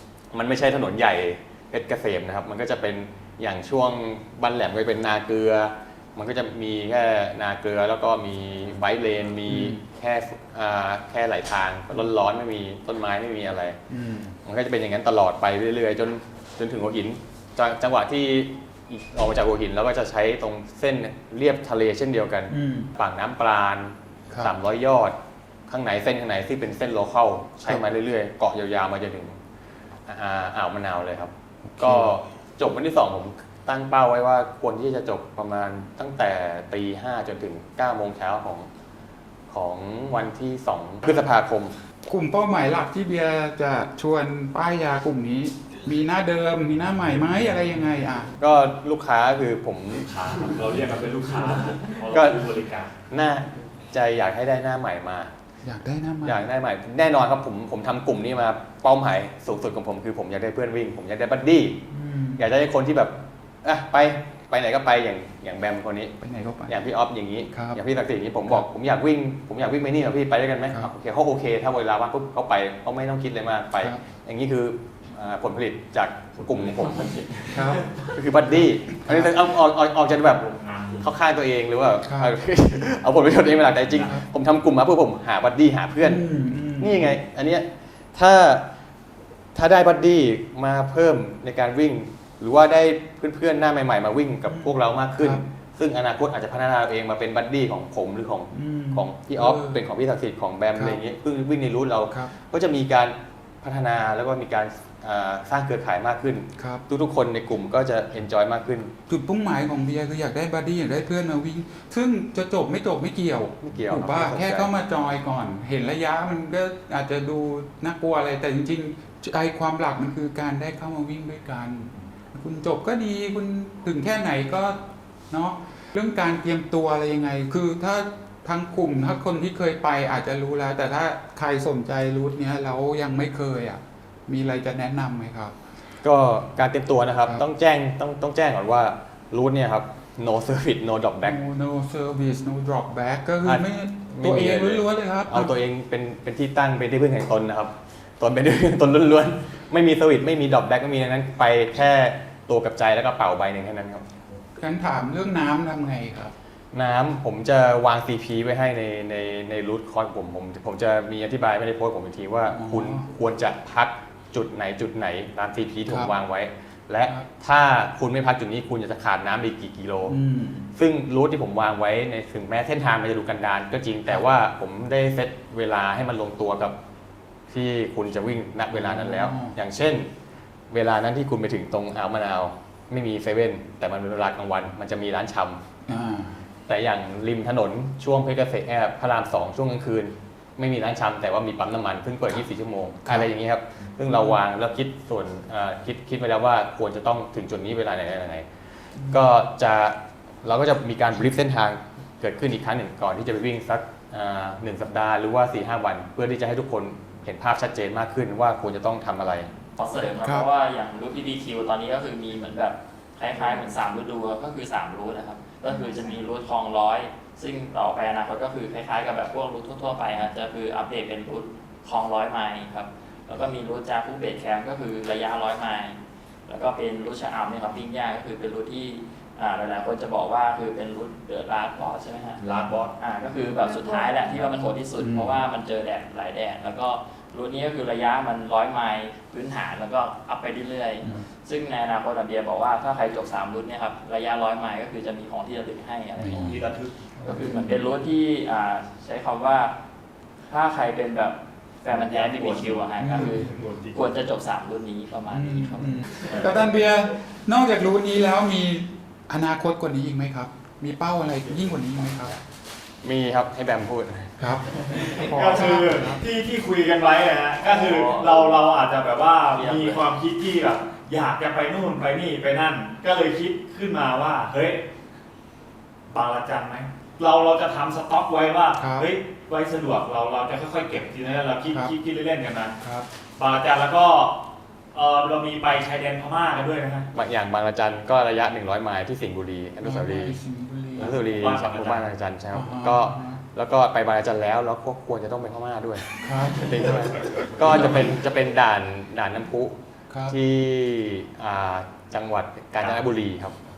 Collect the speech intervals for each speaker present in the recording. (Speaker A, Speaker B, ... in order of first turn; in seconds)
Speaker A: 0.3-13.8, 14.4-25.2, 25.7-29.4, 30.1-38.7, 39.5-41.8, 48.4-50.1, 52.1-52.5, 53.1-55.3, 56.2-66.1, 66.7-80.5, 81.0-86.3, 86.8-88.7, 89.5-108.9, 113.6-114.7, 136.0-141.4, 143.4-154.1, 156.7-170.2, 170.8-176.8, 177.5-180.1, 180.7-185.6, 186.7-198.5, 199.0-209.5, 263.0-264.6, 287.1-290.4, 291.0-303.6
Speaker B: 9.5-9.8, 13.9-14.4, 22.5-22.9, 31.7-32.1, 42.0-48.3, 55.6-56.4, 61.9-62.5, 66.2-66.8, 67.5-67.8, 77.5-77.9, 79.1-79.3, 82.1-82.3, 86.0-87.1, 94.5-95.4, 98.5-99.8, 100.8-101.0, 106.6-106.8, 109.1-135.6, 141.2-145.5, 154.6-156.3, 162.5-163.1, 165.9-166.1, 170.1-170.7, 178.7-179.6, 185.9-186.5, 194.1-194.4, 199.0-199.3, 235.0-235.4, 246.2-246.6, 247.3-247.8, 253.0-253.5, 255.3-262.4, 264.4-266.2, 278.8-279.1, 289.8-291.6, 292.5-293.4, 296.2-296.9
Speaker C: 50.0-52.9, 80.2-81.1, 232.4-232.9, 246.3-247.5, 251.9-254.1, 264.8-274.8, 276.1-282.8, 283.4-284.4, 284.9-287.1, 291.0-292.1
Speaker D: 209.8-232.4, 233.0-246.6, 247.2-249.7, 250.5-256.4, 267.6-268.6, 269.5-270.1